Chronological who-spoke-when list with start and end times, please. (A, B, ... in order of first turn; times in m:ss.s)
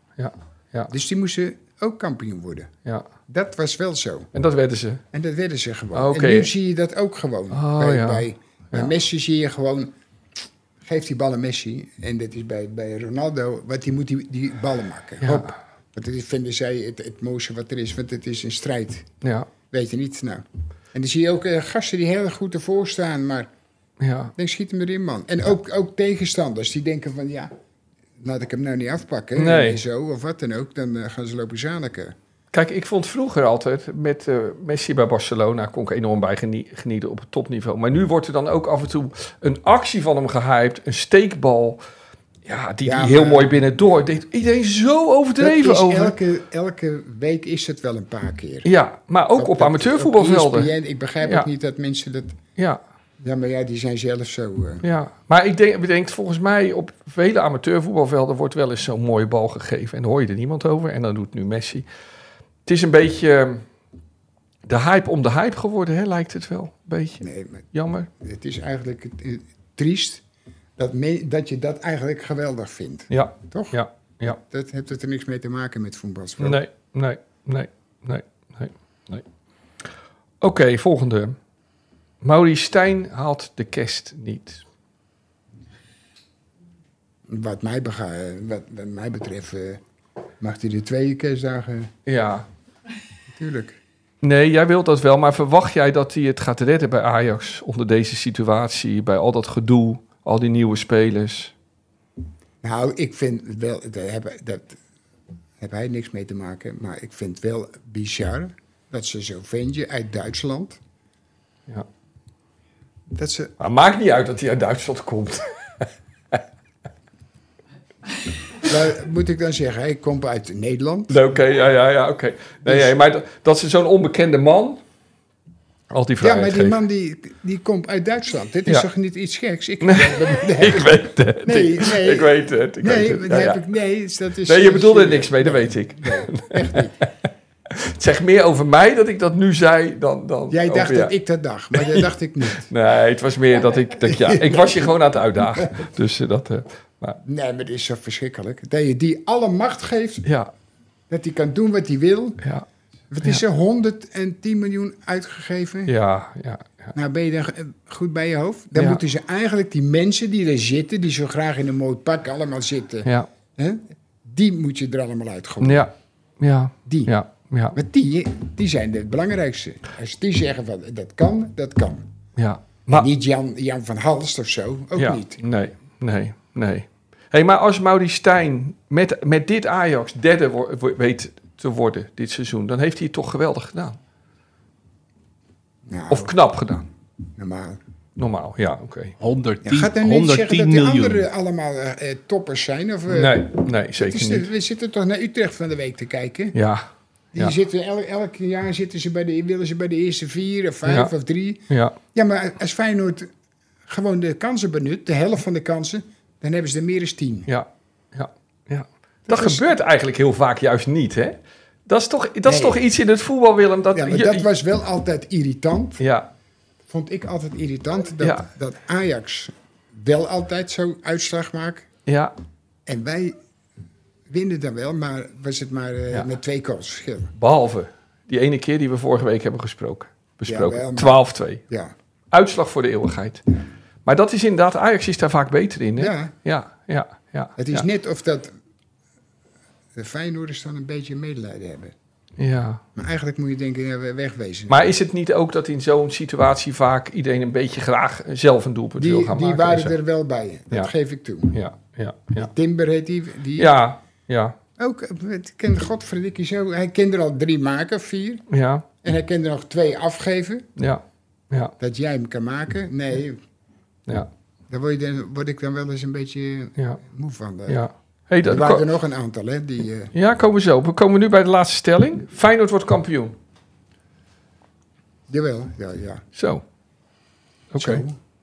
0:00.2-0:00.9 A
0:00.9-0:02.7 B
0:03.3-0:04.3 B
0:04.3-0:05.0 A
0:05.1-0:09.9 B
0:05.9-0:06.5 A
0:07.5-0:08.9 A
0:10.8-0:19.1 B
0:15.2-0:15.6 A
0:19.2-0:19.5 A
0:19.7-0:23.5 B
0:24.0-0:24.3 A
0:24.4-0:27.5 B
0:28.2-0:32.1 B
0:29.4-0:29.8 A
0:32.5-0:41.8 A
0:42.4-0:46.2 A
0:42.8-0:43.6 B
0:45.4-0:48.7 B
0:48.6-0:51.5 A
0:49.4-0:52.4 B
0:53.2-0:54.8 B
0:54.8-1:01.8 A
1:02.6-1:03.6 A
1:04.6-1:08.1 A
1:07.2-1:07.7 B
1:08.2-1:10.2 B
1:10.8-1:16.6 B
1:13.1-1:14.4 A
1:16.4-1:19.2 A
1:20.4-1:21.4 A
1:22.2-1:24.6 A
1:27.3-1:29.8 B
1:30.4-1:31.9 B
1:32.0-1:32.5 A
1:33.3-1:33.8 B
1:34.2-1:41.5 A
1:42.6-1:44.8 B
1:45.6-1:50.8 B
1:53.1-1:53.5 B
1:53.6-1:56.4 A
1:58.6-2:01.2 B
2:01.1-2:04.8 A
2:02.6-2:03.0 B
2:05.9-2:06.8 A
2:06.2-2:17.0 B
2:09.8-2:13.6 A
2:14.4-2:17.1 A
2:17.7-2:21.1 A
2:20.5-2:22.7 B
2:21.7-2:27.2 A
2:23.9-2:25.8 B
2:27.2-2:30.2 B
2:30.2-2:30.5 A
2:31.1-2:32.4 B
2:33.1-2:35.9 B
2:35.9-2:37.0 A
2:36.9-2:45.9 B
2:38.7-2:39.0 A
2:45.6-2:47.8 A
2:46.8-2:47.1 B
2:47.7-2:52.1 B
2:52.4-2:53.1 A
2:52.9-2:55.4 B
2:54.9-3:04.0 A
3:05.9-3:06.3 B
3:06.1-3:06.9 A
3:07.4-3:07.8 B
3:08.2-3:09.1 A
3:09.2-3:11.3 C
3:09.6-3:16.5 B
3:13.1-3:14.5 A
3:16.5-3:16.8 A
3:17.3-3:23.3 B
3:20.8-3:21.1 A
3:21.7-3:22.0 A
3:23.8-3:27.5 B
3:27.5-3:34.5 A
3:29.2-3:29.7 B
3:32.4-3:32.8 B
3:33.9-3:36.0 B
3:36.0-3:36.3 A
3:36.9-3:41.9 B
3:38.2-3:38.5 A
3:42.0-3:42.3 A
3:42.8-3:43.4 B
3:44.3-3:47.3 B
3:47.4-3:51.6 A
3:50.4-3:51.9 B
3:52.3-3:53.4 A
3:54.0-3:57.8 A
3:56.0-3:56.3 B
3:57.6-3:58.5 B
3:59.9-4:01.9 B
4:02.4-4:02.8 A
4:03.0-4:04.9 B
4:04.7-4:10.0 A
4:09.0-4:11.6 B
4:11.5-4:12.5 A
4:12.4-4:13.8 B
4:13.6-4:14.6 A
4:14.8-4:18.4 B
4:18.5-4:18.8 A
4:19.0-4:20.7 B
4:20.8-4:21.7 A
4:21.8-4:23.4 B
4:24.7-4:27.8 B
4:27.7-4:28.9 A
4:28.4-4:30.1 B
4:30.1-4:33.4 A
4:35.3-4:36.2 B
4:36.3-4:36.6 A
4:37.7-4:38.0 A
4:37.8-4:38.2 B